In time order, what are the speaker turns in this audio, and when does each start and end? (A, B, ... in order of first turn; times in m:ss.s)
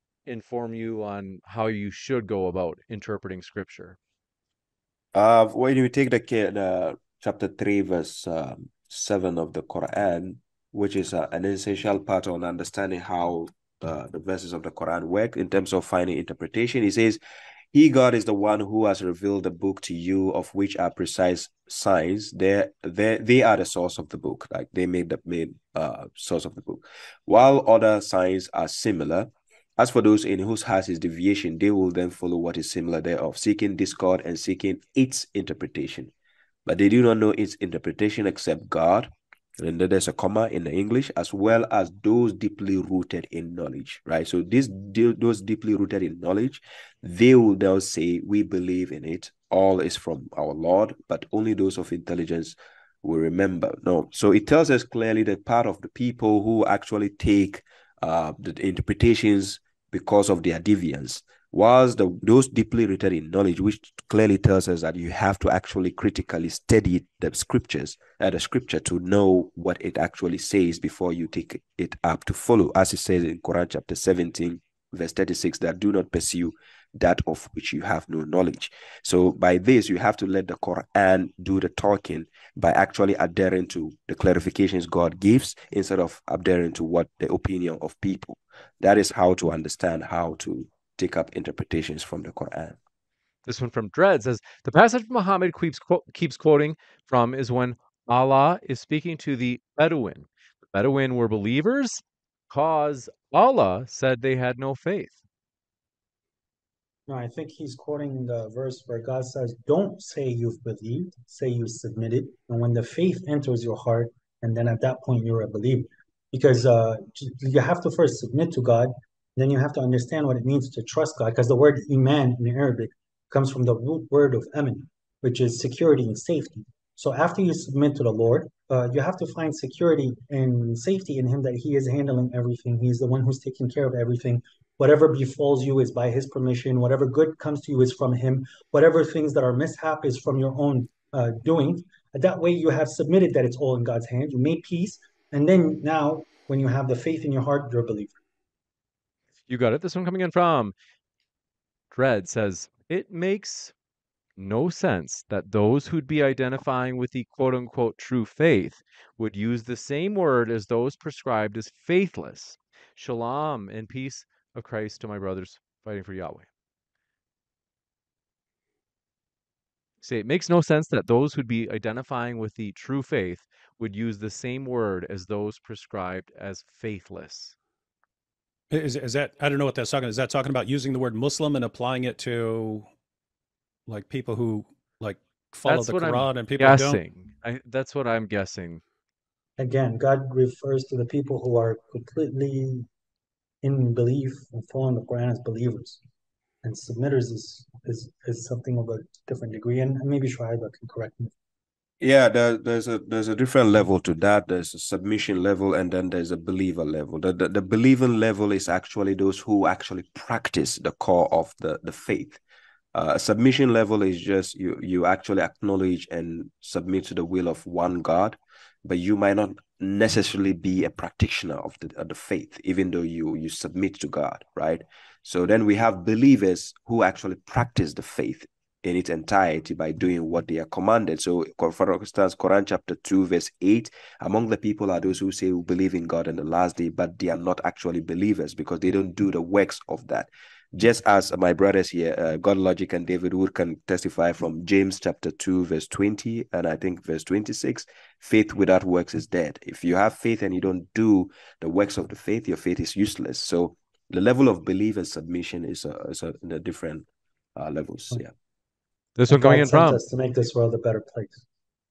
0:00.3-0:04.0 A
0:05.1-0:17.2 B
0:17.7-0:36.1 B
0:36.7-1:32.8 B
1:33.4-1:45.2 A
1:47.1-2:28.2 C
2:29.5-2:30.7 A
2:31.9-2:33.7 A
2:34.4-2:46.5 A
2:50.0-2:57.6 A
2:58.7-3:02.9 D
3:03.9-3:07.0 D
3:05.7-3:08.8 A
3:09.6-3:12.9 C
3:13.6-3:16.0 C
3:16.6-3:21.3 C
3:22.0-3:32.4 B
3:32.9-4:18.3 B
4:19.2-4:20.0 A
4:19.3-4:21.4 C